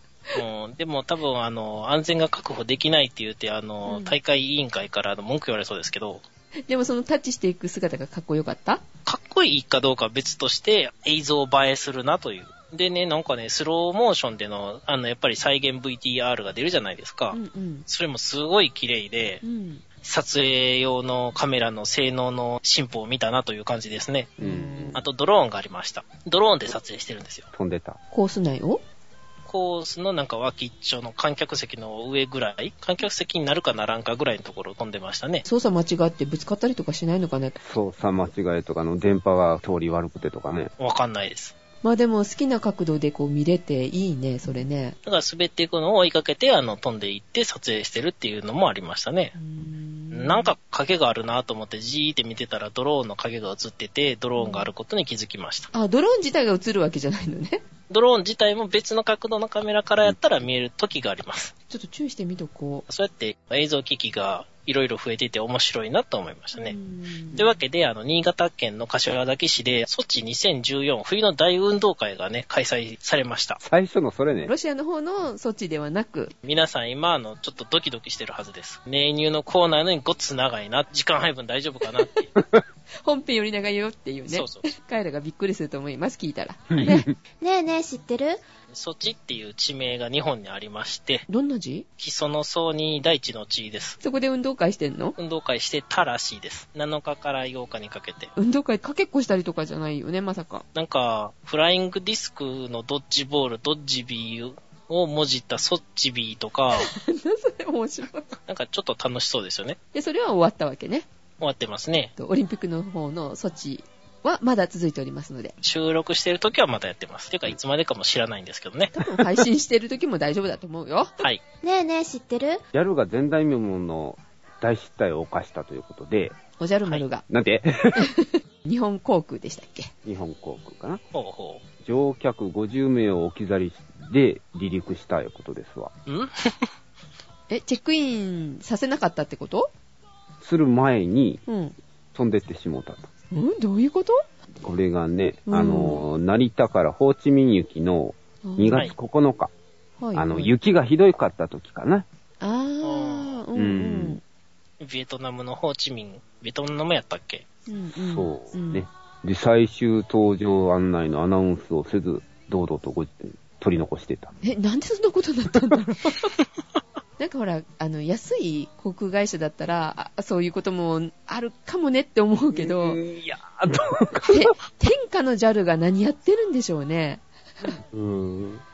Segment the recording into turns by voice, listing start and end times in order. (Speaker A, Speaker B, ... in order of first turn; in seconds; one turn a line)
Speaker A: 0.3-6.2
Speaker B: 3.9-4.2
Speaker B: 6.7-8.8
Speaker A: 9.1-19.4
Speaker B: 17.3-17.9
Speaker B: 19.4-19.8
Speaker A: 20.0-24.3
Speaker B: 24.4-25.0
Speaker C: 24.4-25.0
Speaker A: 24.9-27.5
Speaker C: 27.5-28.0
Speaker B: 28.1-28.8
Speaker A: 29.4-35.4
Speaker B: 35.4-37.6
Speaker C: 37.6-40.7
Speaker A: 40.8-41.5
Speaker B: 41.8-45.0
Speaker A: 45.0-49.3
Speaker B: 49.4-50.5
Speaker A: 50.1-55.7
Speaker B: 54.4-54.7
Speaker B: 55.7-57.6
Speaker A: 57.9-61.5
Speaker B: 61.7-62.9
Speaker A: 62.9-66.8
Speaker B: 66.5-67.5
Speaker A: 67.3-73.6
Speaker C: 73.6-74.5
Speaker B: 74.4-76.3
Speaker A: 76.4-82.3
Speaker C: 82.3-82.6
Speaker B: 83.0-87.1
Speaker A: 84.3-84.7
Speaker C: 86.7-87.1
Speaker D: 87.4-88.4
Speaker A: 88.7-91.2
Speaker B: 91.3-91.8
Speaker A: 92.0-94.0
Speaker B: 94.0-95.2
Speaker A: 95.2-98.3
Speaker B: 98.3-100.6
Speaker A: 100.7-106.9
Speaker B: 106.7-108.3
Speaker A: 108.5-109.8
Speaker B: 109.9-111.1
Speaker A: 111.4-112.1
Speaker B: 112.2-115.5
Speaker A: 115.6-118.9
Speaker B: 118.9-121.1
Speaker D: 121.6-122.6
Speaker C: 122.7-126.3
Speaker B: 126.6-127.2
Speaker C: 127.3-128.1
Speaker B: 127.9-129.9
Speaker C: 130.0-131.0
Speaker A: 131.1-131.6
Speaker C: 131.8-135.9
Speaker A: 136.1-136.7
Speaker B: 137.5-139.7
Speaker C: 140.4-141.4
Speaker B: 141.5-141.8
Speaker C: 142.1-143.1
Speaker B: 143.3-144.2
Speaker C: 144.6-149.5
Speaker B: 145.5-146.0
Speaker B: 148.4-148.9
Speaker B: 150.0-150.5
Speaker C: 150.1-152.1
Speaker B: 152.4-154.2
Speaker A: 152.8-153.4
Speaker C: 153.5-154.2
Speaker A: 154.8-157.4
Speaker B: 157.7-158.8
Speaker C: 157.9-164.3
Speaker B: 164.4-166.3
Speaker B: 167.2-173.0
Speaker C: 172.5-174.6
Speaker B: 174.3-177.8
Speaker C: 177.8-178.6